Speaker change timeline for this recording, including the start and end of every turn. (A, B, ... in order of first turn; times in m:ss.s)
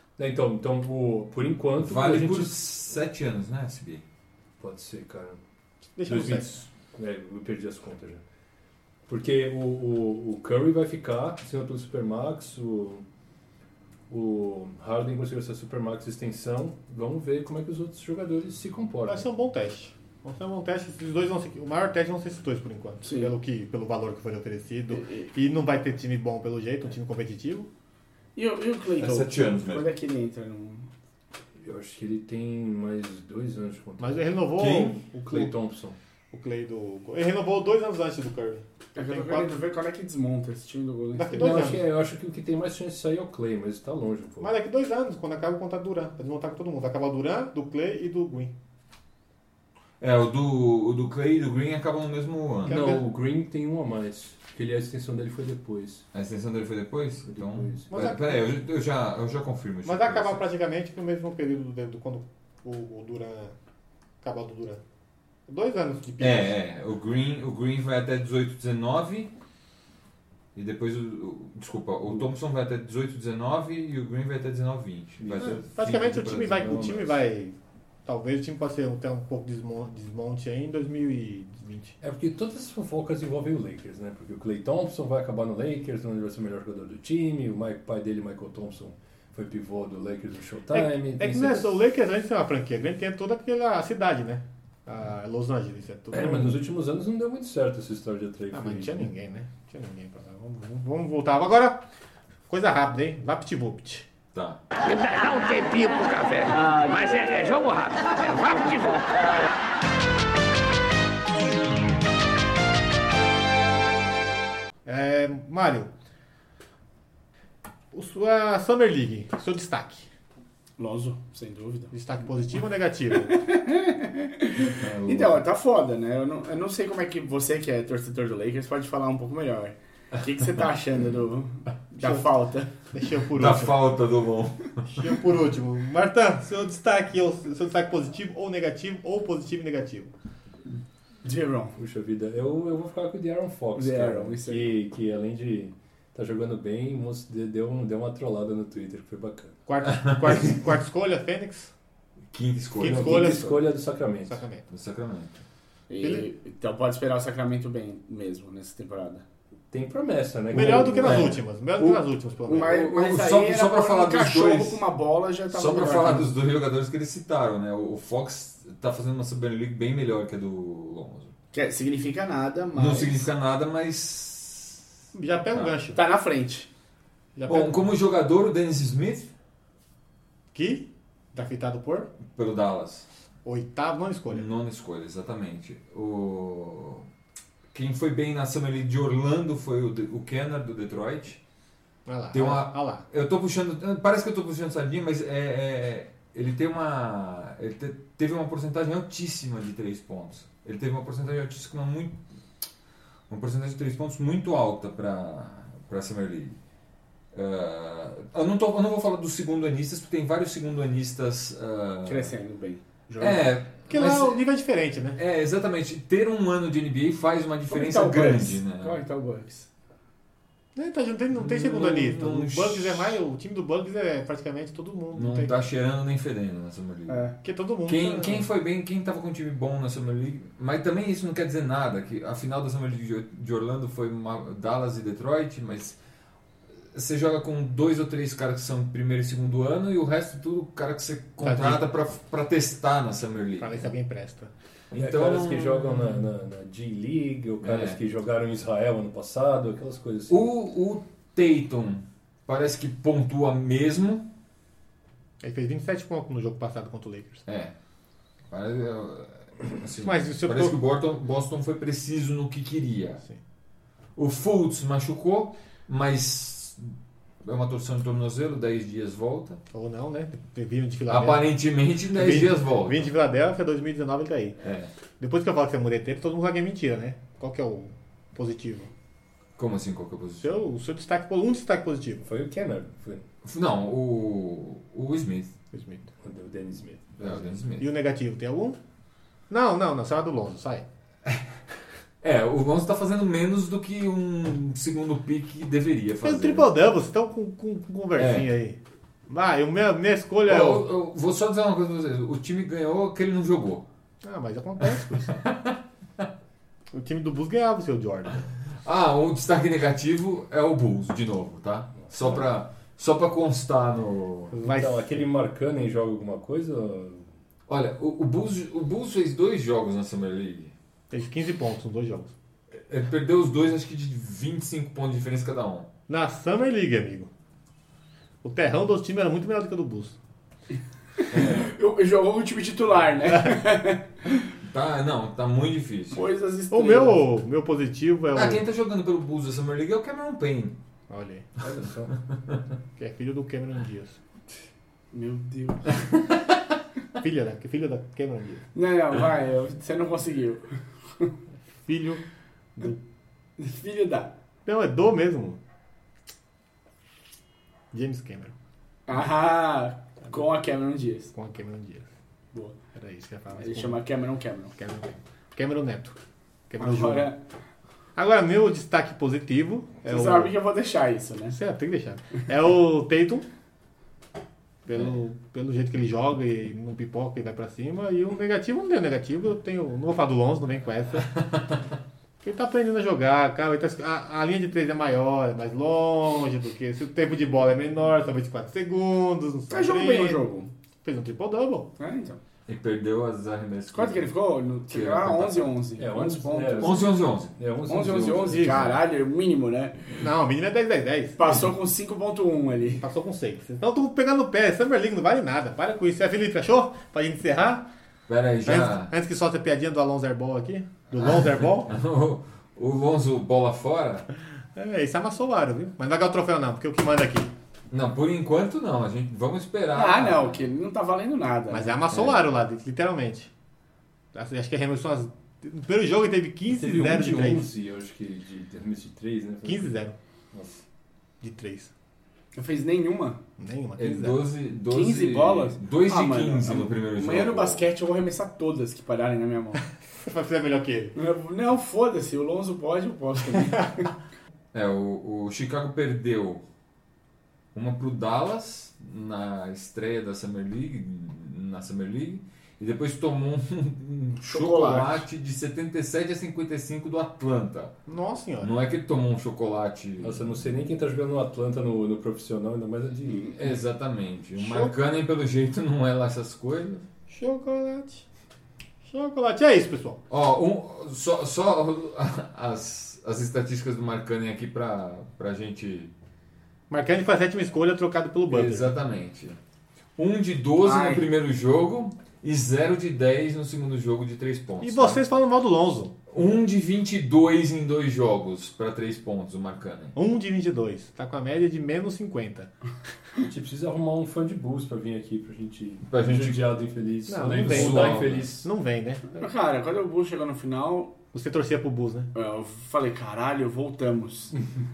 0:00.2-0:02.5 A
0:01.8-0:04.0 B
0:04.6-0:05.4 A
0:06.0-0:06.6 C
0:06.0-0:08.2 A
0:09.1-0:13.0 A
0:14.1-0:19.3 A
0:19.1-0:27.7 C
0:23.0-0:23.3 D
0:24.9-0:25.3 D
0:28.4-0:30.9 D
0:29.0-0:29.9 B
0:31.6-0:34.5 A
0:34.0-0:35.5 C
0:34.6-0:35.0 B
0:35.2-0:36.0 A
0:36.3-0:39.6 C
0:39.0-0:41.7 D
0:41.2-0:41.8 C
0:41.3-0:44.5 A
0:44.4-0:48.5 C
0:50.0-0:52.8 B
0:52.6-0:53.0 C
0:52.7-0:56.1 A
0:56.1-1:00.4 B
0:57.3-0:57.9 A
0:57.9-0:58.4 C
0:59.8-1:03.6 C
1:04.2-1:04.8 C
1:05.5-1:06.6 C
1:06.2-1:09.3 B
1:10.6-1:17.0 B
1:15.2-1:15.6 A
1:15.4-1:22.0 C
1:16.5-1:17.0 A
1:22.0-1:31.7 A
1:30.7-1:36.6 C
1:36.1-1:39.1 A
1:38.5-1:41.9 C
1:42.5-1:44.1 C
1:44.3-1:44.6 B
1:44.8-1:49.4 E
1:54.9-1:55.9 C
1:57.9-2:00.1 C
2:00.8-2:01.9 D
2:01.9-2:03.4 C
2:03.3-2:12.7 D
2:04.6-2:05.4 B
2:12.0-2:12.3 C
2:12.9-2:13.8 C
2:13.4-2:15.2 B
2:14.9-2:20.1 C
2:21.2-2:21.8 D
2:21.8-2:29.6 A
2:23.8-2:24.7 D
2:29.7-2:31.7 C
2:29.9-2:30.2 B
2:32.3-2:33.3 B
2:32.8-2:33.7 C
2:32.8-2:34.4 A
2:34.3-2:34.6 C
2:34.7-2:35.4 B
2:35.9-2:39.2 D
2:36.0-2:36.3 C
2:39.7-2:41.4 A
2:40.5-2:42.8 C
2:41.0-2:41.3 B
2:42.5-2:46.3 D
2:42.5-2:44.8 B
2:45.5-2:51.3 B
2:51.5-2:53.3 D
2:52.8-2:54.8 B
2:55.1-2:56.0 C
2:55.9-2:56.7 D
2:57.4-2:57.8 C
2:57.5-2:59.3 B
3:00.5-3:02.1 C
3:02.2-3:03.1 B
3:03.4-3:04.5 C
3:04.3-3:07.1 B
3:07.7-3:11.4 B
3:12.1-3:13.0 C
3:12.3-3:22.2 B
3:23.3-3:26.6 B
3:27.3-3:32.3 B
3:32.0-3:33.5 D
3:33.2-3:34.4 B
3:33.9-3:35.2 C
3:35.2-3:39.0 B
3:37.7-3:39.7 D
3:40.8-3:45.5 C
3:41.3-3:43.2 B
3:45.1-3:47.2 B
3:47.1-3:47.3 D
3:47.4-3:48.5 C
3:47.9-3:56.0 B
3:56.9-4:03.8 B
4:01.4-4:01.8 C
4:03.6-4:04.5 C
4:04.9-4:06.2 B
4:04.9-4:10.5 A
4:07.6-4:08.0 B
4:10.3-4:14.2 B
4:15.4-4:17.4 C
4:17.5-4:17.7 B
4:18.5-4:23.2 B
4:20.0-4:20.8 C
4:24.2-4:29.6 B
4:29.7-4:31.5 C
4:31.1-4:33.1 B
4:32.1-4:34.6 C
4:34.6-4:34.9 B
4:35.2-4:38.9 C
4:39.6-4:40.6 B
4:40.4-4:42.2 C
4:42.2-4:43.2 A
4:43.4-4:45.5 B
4:45.7-4:46.1 C
4:46.2-4:47.2 A
4:47.2-4:47.9 B
4:47.2-4:48.8 C
4:49.5-4:50.9 C
4:52.2-4:56.8 B
4:56.2-5:00.9 C
4:58.2-4:58.5 B
5:00.5-5:03.8 B
5:04.2-5:05.4 C
5:04.9-5:05.7 B
5:06.9-5:08.5 C
5:08.8-5:14.5 B
5:14.5-5:15.2 C
5:14.6-5:17.3 A
5:17.7-5:20.7 B
5:21.1-5:22.3 C
5:22.8-5:25.9 B
5:26.1-5:27.3 C
5:28.4-5:30.2 C
5:31.3-5:34.4 D
5:31.3-5:31.6 B
5:33.3-5:33.6 C
5:34.6-5:36.2 B
5:36.1-5:37.2 D
5:36.7-5:38.6 C
5:38.3-5:40.8 B
5:41.1-5:41.5 C
5:41.6-5:42.1 A
5:43.0-5:44.2 C
5:45.1-5:46.0 D
5:47.2-5:48.6 C
5:48.8-5:51.3 D
5:51.8-5:52.2 C
5:53.6-5:54.4 D
5:54.6-5:55.6 C
5:57.9-5:58.6 C
5:59.1-6:01.3 D
6:01.3-6:02.1 C
6:03.0-6:04.0 C
6:03.6-6:04.7 D
6:04.8-6:06.2 C
6:06.7-6:07.3 C
6:06.8-6:07.4 D
6:08.2-6:10.6 C
6:10.1-6:11.6 D
6:11.5-6:13.5 C
6:14.9-6:21.3 C
6:22.4-6:30.4 C
6:29.7-6:30.7 D
6:31.0-6:31.9 C
6:32.0-6:32.4 D
6:32.7-6:34.3 B
6:33.9-6:37.1 D
6:34.9-6:35.8 B
6:36.0-6:38.9 A
6:36.8-6:37.5 B
6:37.9-6:40.1 D
6:38.5-6:39.0 B
6:40.2-6:41.5 C
6:41.4-6:43.0 D
6:43.0-6:47.9 C
6:48.3-6:49.1 B
6:48.6-6:51.9 C
6:51.9-6:54.3 B
6:54.7-6:57.5 C
6:57.9-7:00.7 B
6:59.9-7:02.0 D
7:01.7-7:03.5 C
7:02.1-7:02.4 B
7:04.3-7:07.7 C
7:06.7-7:09.9 A
7:09.6-7:10.2 C
7:11.4-7:11.9 C
7:12.5-7:13.4 D
7:13.6-7:14.4 C
7:14.0-7:17.9 B
7:14.9-7:19.8 D
7:20.2-7:21.2 C
7:21.2-7:24.1 D
7:24.7-7:26.6 B
7:27.7-7:37.9 B
7:34.4-7:35.2 D
7:38.1-7:38.7 C
7:38.6-7:40.6 B
7:40.2-7:43.6 A
7:43.3-7:43.5 D
7:43.6-7:47.0 B
7:44.6-7:44.9 C
7:47.3-7:48.2 C
7:49.0-7:50.2 C
7:50.3-7:56.1 B
7:56.9-7:58.9 C
7:58.5-7:59.6 B
8:00.2-8:05.2 B
8:00.8-8:01.3 D
8:04.8-8:06.2 C
8:06.3-8:10.2 B
8:10.2-8:12.7 C
8:13.4-8:18.7 A
8:16.1-8:16.7 B
8:17.3-8:19.4 C
8:17.5-8:18.5 B
8:19.4-8:21.2 D
8:21.3-8:22.3 C
8:22.3-8:24.6 D